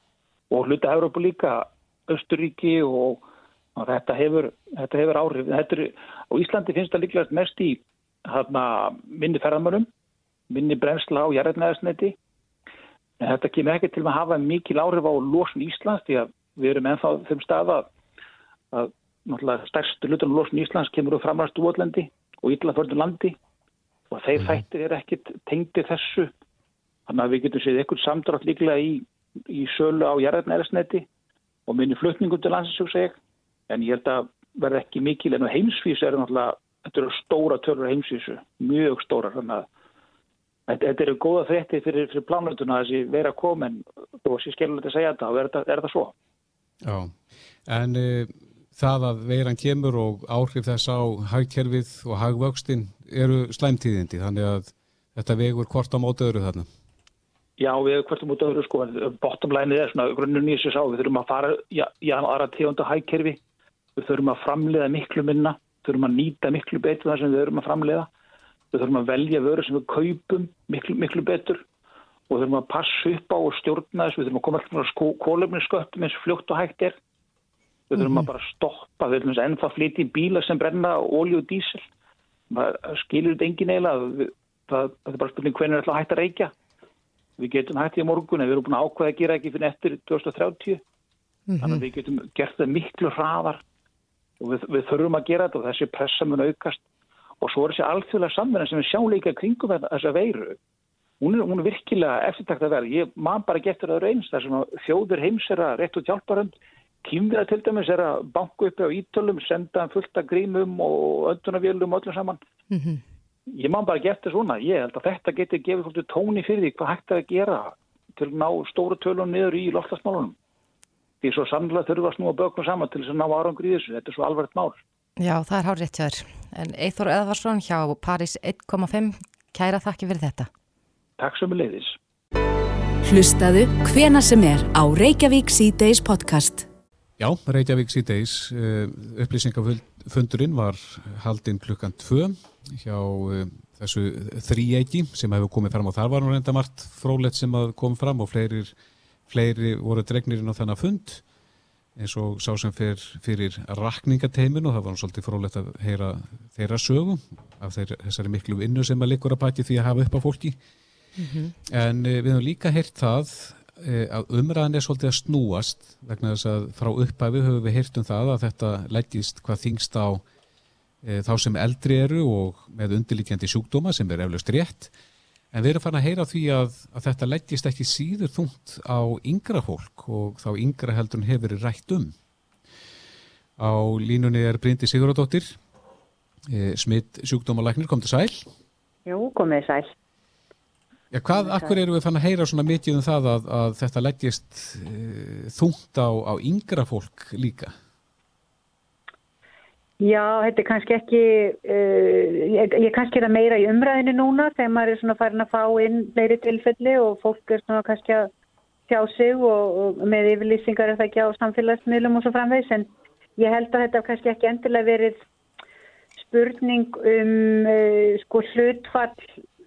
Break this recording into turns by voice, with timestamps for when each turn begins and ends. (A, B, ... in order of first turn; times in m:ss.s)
0:00.5-0:03.2 A
0:03.8-0:09.9 A
0:10.5-0:12.2 A
0:13.2-0:17.9 A
0:18.7-0:23.4 A
0:24.1-0:26.3 A
0:27.1-0:31.1 A
0:31.7-0:33.2 A
0:33.7-0:39.7 A
0:40.7-0:46.1 A
0:46.8-0:47.2 B
0:47.7-0:56.7 B
0:57.6-1:03.4 A
1:04.0-1:08.1 A
1:08.7-1:11.6 A
1:12.3-1:17.0 A
1:17.9-1:21.8 A
1:18.0-1:18.2 C
1:22.5-1:26.5 A
1:27.4-1:30.8 A
1:31.5-1:31.8 C
1:31.6-1:33.6 A
1:34.4-1:36.8 A
1:37.4-1:40.6 A
1:41.2-1:52.4 A
1:52.7-1:53.0 C
1:53.5-2:00.4 A
2:01.2-2:04.8 A
2:05.2-2:10.5 C
2:11.2-2:12.0 A
2:13.0-2:16.7 D
2:17.2-2:28.7 B
2:29.3-2:31.2 B
2:32.0-2:40.6 B
2:41.2-2:41.6 C
2:41.7-2:50.2 B
2:51.0-2:54.9 B
2:55.5-3:02.2 B
3:03.6-3:05.6 B
3:06.5-3:08.5 B
3:09.1-3:09.9 E
3:11.1-3:17.7 B
3:11.4-3:11.8 E
3:20.0-3:28.3 E
3:28.9-3:35.2 E
3:36.2-3:39.4 E